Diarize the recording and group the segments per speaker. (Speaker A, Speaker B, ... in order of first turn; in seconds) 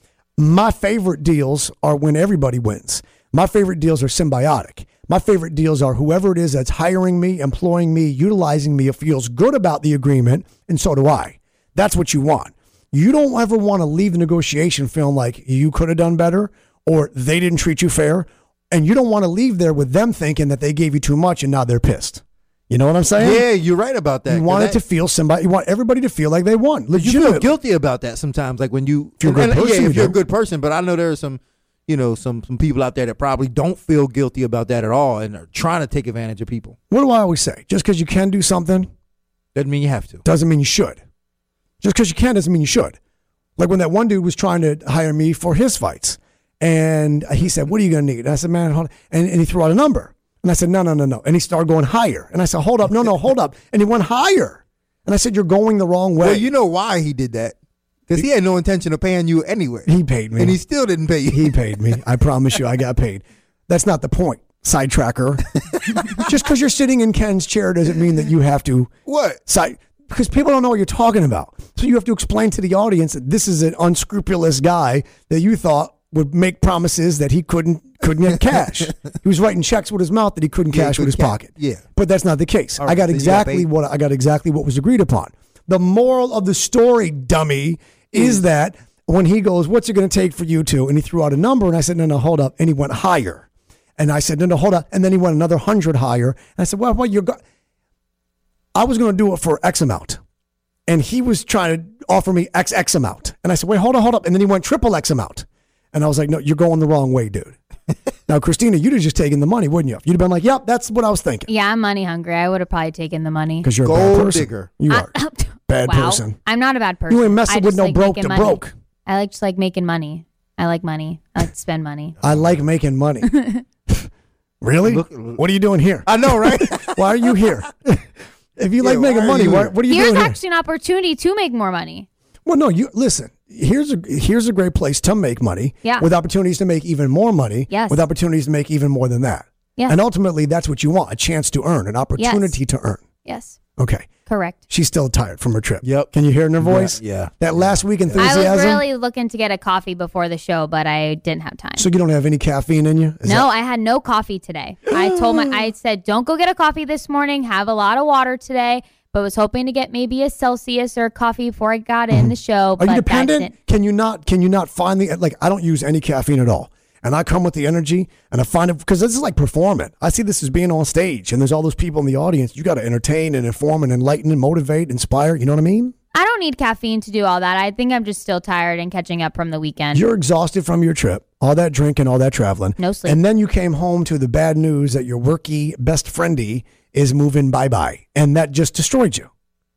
Speaker A: 0.4-23.4, 24.3-27.5, 29.2-30.2, 36.9-38.9, 40.2-41.0, 41.8-43.0, 43.6-56.5, 59.9-60.6, 61.3-65.5, 66.1-68.9, 69.5-97.4, 98.7-100.2, 100.9-107.5, 108.3-111.5, 113.6-115.1, 115.7-116.4, 117.1-118.7, 122.2-123.3, 124.6-128.0, 128.6-130.4, 132.4-143.0, 143.8-144.1, 144.7-148.8, 151.8-153.5, 162.1-175.9, 179.9-189.3
Speaker B: 23.2-24.8, 26.9-36.8, 39.5-40.2, 56.2-57.5, 58.1-61.6, 65.9-66.2, 69.0-69.4, 80.7-81.8, 82.8-83.7, 113.8-114.7, 122.2-122.5, 124.8-125.4, 126.0-127.5, 128.8-129.7, 145.8-148.3
Speaker C: 111.5-113.7, 114.9-122.1, 123.3-123.6, 129.9-132.1, 137.7-138.0, 142.2-142.6, 143.2-143.6, 144.3-144.6, 148.2-151.8, 153.2-163.5, 176.1-180.0, 182.8-183.2